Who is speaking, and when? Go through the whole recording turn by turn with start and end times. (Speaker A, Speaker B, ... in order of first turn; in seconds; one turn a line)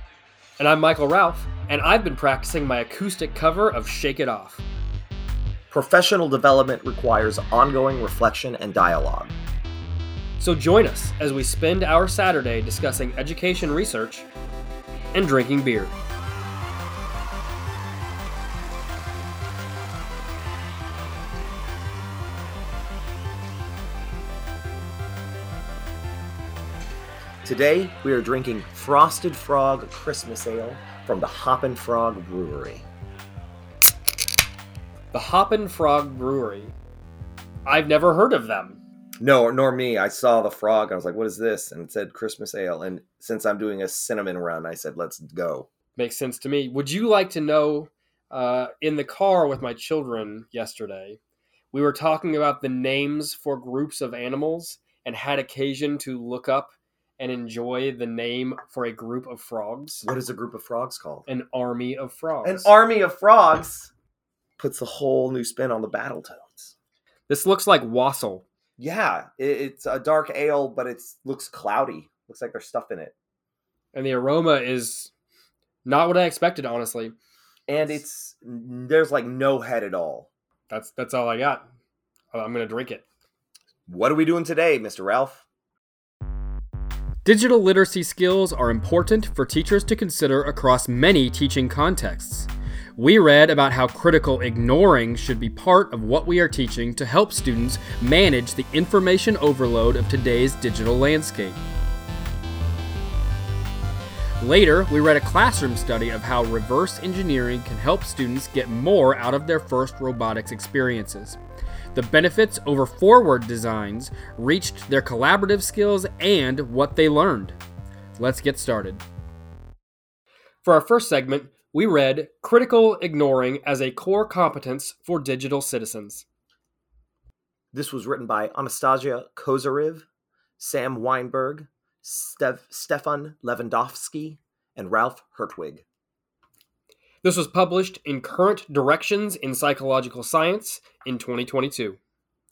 Speaker A: 0.6-4.6
Speaker B: 5.7-9.3
Speaker A: 10.4-14.2
Speaker A: 15.1-15.9
Speaker B: 27.4-32.9
Speaker A: 35.1-36.7
Speaker A: 37.6-38.8
Speaker B: 39.2-45.7
Speaker A: 46.0-51.2
Speaker A: 51.7-60.0
Speaker B: 60.0-61.3
Speaker A: 61.3-62.7
Speaker B: 62.4-63.9
Speaker B: 64.6-66.7
Speaker A: 67.3-68.4
Speaker B: 68.8-73.1
Speaker A: 73.9-75.1
Speaker A: 75.8-77.1
Speaker B: 77.7-80.3
Speaker A: 80.7-81.6
Speaker A: 82.3-83.0
Speaker B: 83.9-85.4
Speaker A: 87.2-101.6
Speaker A: 104.4-111.4
Speaker A: 111.9-117.6
Speaker A: 118.2-119.0
Speaker A: 120.6-126.2
Speaker B: 127.7-130.1
Speaker B: 130.6-135.8
Speaker A: 137.2-142.0